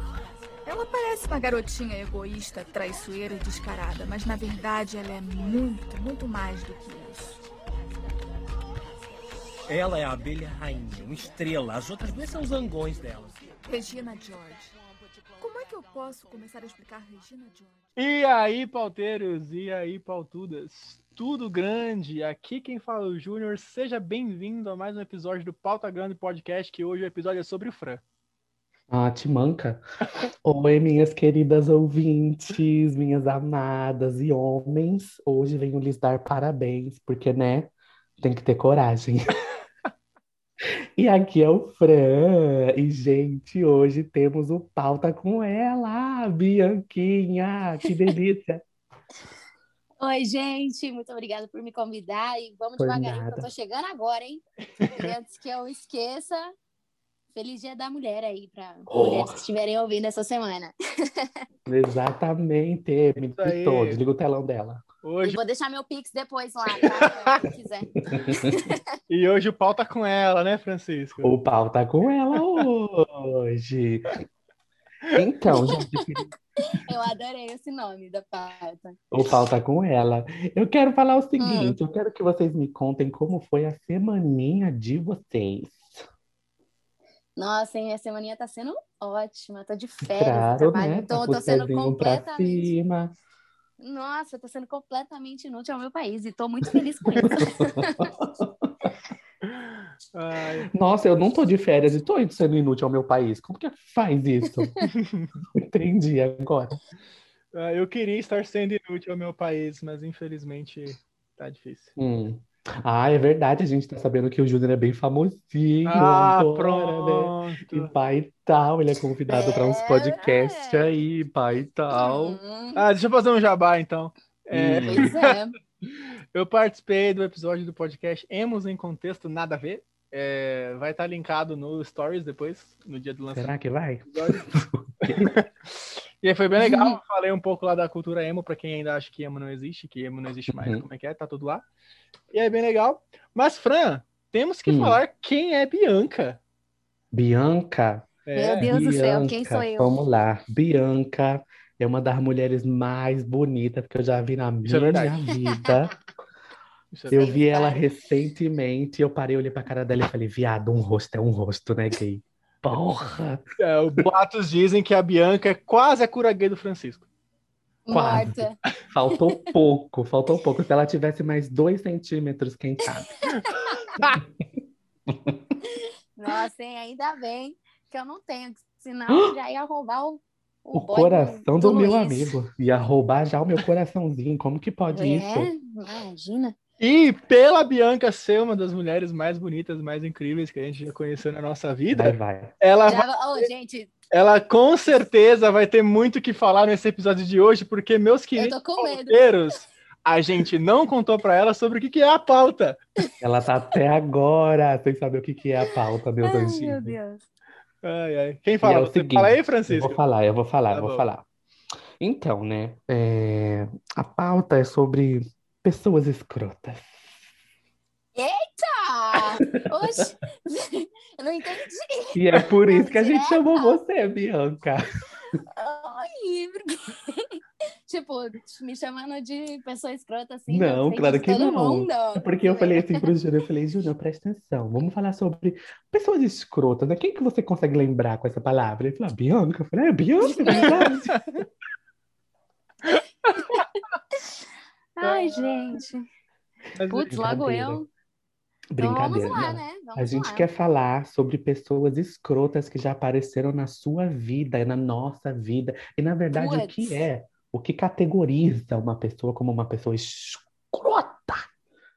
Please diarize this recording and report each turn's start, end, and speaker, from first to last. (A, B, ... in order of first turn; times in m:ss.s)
0:00.6-0:07.4 A
0:09.7-0:13.4 B
0:13.6-0:14.6 A
0:15.4-0:17.7 A
0:18.0-0:28.0 C
0:28.9-0:29.8 D
0:30.4-0:39.4 D
0:41.0-0:48.6 D
0:50.0-0:56.5 E
0:52.8-0:53.5 D
0:54.8-0:55.1 C
0:57.3-1:01.2 E
0:58.9-0:59.4 D
1:01.6-1:04.8 D
1:03.4-1:04.0 C
1:05.0-1:05.4 C
1:05.2-1:07.9 E
1:06.8-1:07.4 C
1:08.1-1:08.6 D
1:08.4-1:08.8 E
1:09.1-1:11.3 C
1:11.2-1:14.2 D
1:12.4-1:12.6 C
1:15.1-1:16.3 D
1:16.7-1:19.0 E
1:19.1-1:26.0 D
1:21.4-1:21.8 E
1:27.4-1:32.7 E
1:30.1-1:33.1 D
1:33.8-1:38.1 E
1:37.0-1:38.7 D
1:39.4-1:40.7 C
1:40.7-1:44.7 D
1:44.9-1:45.3 C
1:45.6-1:46.8 D
1:47.5-1:51.9 C
1:52.0-2:02.4 D
1:55.8-1:57.9 C
1:59.3-2:00.9 E
2:01.9-2:02.8 E
2:02.7-2:05.3 C
2:04.5-2:05.1 D
2:04.8-2:05.6 E
2:05.9-2:13.5 C
2:13.3-2:15.3 D
2:14.1-2:14.4 C
2:15.0-2:21.6 C
2:16.6-2:17.0 E
2:20.5-2:20.9 D
2:22.3-2:26.4 C
2:24.6-2:25.0 D
2:27.1-2:28.1 D
2:28.2-2:28.7 C
2:28.4-2:29.9 E
2:28.6-2:36.0 D
2:34.6-2:35.2 C
2:36.9-2:37.2 C
2:37.1-2:43.4 D
2:37.2-2:37.8 E
2:43.6-2:47.0 C
2:47.8-2:48.6 E
2:47.9-2:53.1 D
2:49.1-2:49.5 E
2:53.3-2:53.8 E
2:55.1-2:55.4 D
2:56.2-3:02.3 E
2:59.1-2:59.3 D
3:00.7-3:05.5 D
3:04.9-3:06.6 E
3:06.8-3:13.5 C
3:11.9-3:12.5 D
3:12.8-3:13.9 E
3:14.1-3:22.8 C
3:18.4-3:19.2 E
3:23.2-3:27.0 D
3:26.2-3:27.2 E
3:27.8-3:30.0 C
3:28.6-3:31.2 D
3:30.7-3:31.0 C
3:32.0-3:36.9 D
3:38.1-3:43.8 E
3:42.1-3:44.8 D
3:45.5-3:53.0 E
3:50.5-4:01.2 D
4:00.3-4:00.9 E
4:03.2-4:03.6 C
4:05.0-4:06.0 E
4:05.0-4:05.8 C
4:06.8-4:07.1 C
4:06.9-4:07.9 E
4:07.1-4:07.8 D
4:08.7-4:21.4 D
4:08.8-4:10.5 E
4:16.3-4:17.0 E